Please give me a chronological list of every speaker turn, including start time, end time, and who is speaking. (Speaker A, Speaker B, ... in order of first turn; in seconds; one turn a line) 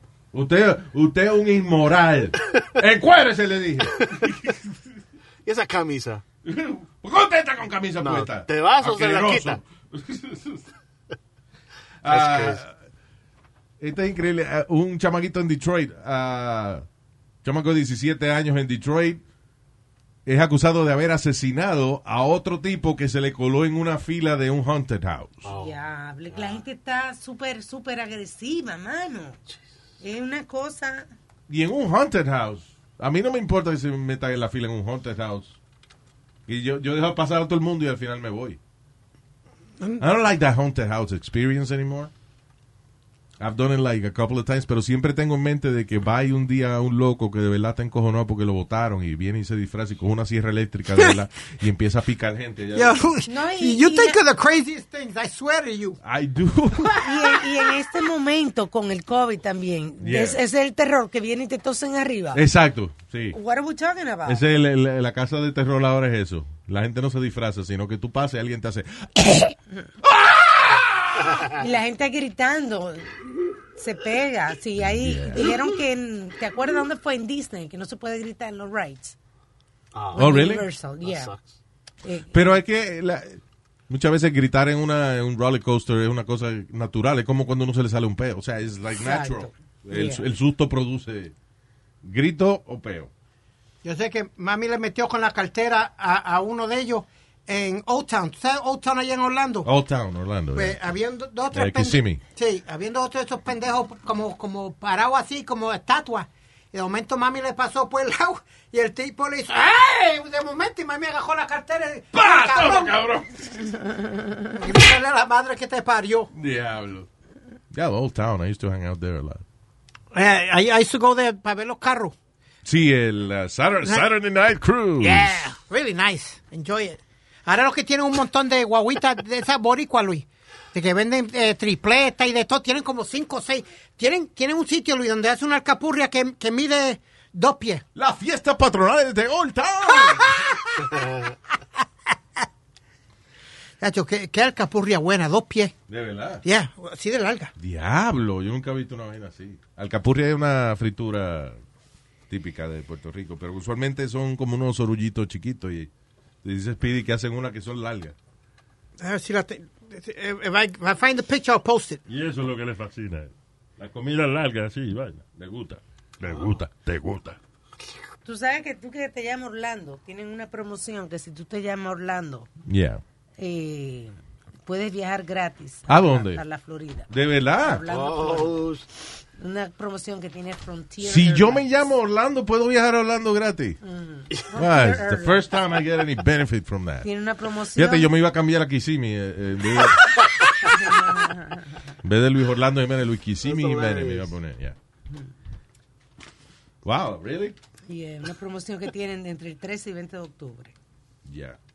Speaker A: 0.3-4.7
Speaker B: 5.4-6.2
Speaker A: 6.4-10.6
Speaker B: 8.0-9.6
Speaker A: 12.0-12.7
Speaker B: 12.1-12.6
Speaker A: 13.8-16.8
Speaker A: 17.4-19.2
Speaker A: 20.2-25.4
Speaker B: 25.4-25.8
Speaker C: 25.5-29.4
Speaker B: 26.3-26.6
Speaker C: 30.0-31.1
Speaker A: 31.5-35.6
Speaker A: 36.5-38.6
Speaker A: 40.0-42.1
Speaker A: 43.4-53.0
Speaker D: 52.7-56.0
Speaker C: 53.3-54.2
Speaker A: 56.0-57.0
Speaker D: 56.8-57.3
Speaker C: 57.0-62.4
Speaker A: 60.0-60.4
Speaker A: 62.3-63.4
Speaker C: 63.3-64.4
Speaker A: 64.2-71.3
Speaker C: 71.5-73.1
Speaker C: 73.8-79.1
Speaker A: 74.8-75.5
Speaker B: 79.9-80.4
Speaker C: 80.1-81.3
Speaker A: 80.1-80.6
Speaker B: 81.0-81.5
Speaker C: 82.0-82.6
Speaker A: 82.3-91.3
Speaker C: 89.0-90.2
Speaker A: 92.0-93.1
Speaker D: 93.8-99.7
Speaker A: 99.6-100.8
Speaker D: 100.5-112.9
Speaker A: 101.5-102.2
Speaker A: 112.1-114.0
Speaker D: 114.5-116.3
Speaker A: 116.3-117.1
Speaker A: 117.7-119.4
Speaker D: 120.1-122.1
Speaker A: 122.6-125.4
Speaker D: 125.0-137.8
Speaker A: 137.9-140.5
Speaker D: 140.0-140.7
Speaker B: 140.9-141.3
Speaker D: 143.8-145.7
Speaker A: 145.9-146.4
Speaker D: 146.4-147.5
Speaker A: 147.6-151.6
Speaker A: 152.3-155.9
Speaker A: 156.4-158.1
Speaker D: 159.0-162.0
Speaker E: 162.1-167.4
Speaker C: 168.2-172.5
Speaker A: 172.7-173.0
Speaker C: 173.4-174.1
Speaker C: 174.7-178.7
Speaker A: 175.9-176.4
Speaker A: 177.1-177.8
Speaker B: 177.9-178.8
Speaker C: 179.4-181.7
Speaker A: 181.0-183.8
Speaker C: 183.8-185.4
Speaker A: 184.5-187.1
Speaker C: 187.0-188.1
Speaker A: 187.7-190.0
Speaker C: 190.6-191.8
Speaker A: 192.0-194.8
Speaker B: 193.4-194.3
Speaker A: 196.8-197.6
Speaker C: 197.9-200.7
Speaker A: 201.2-201.6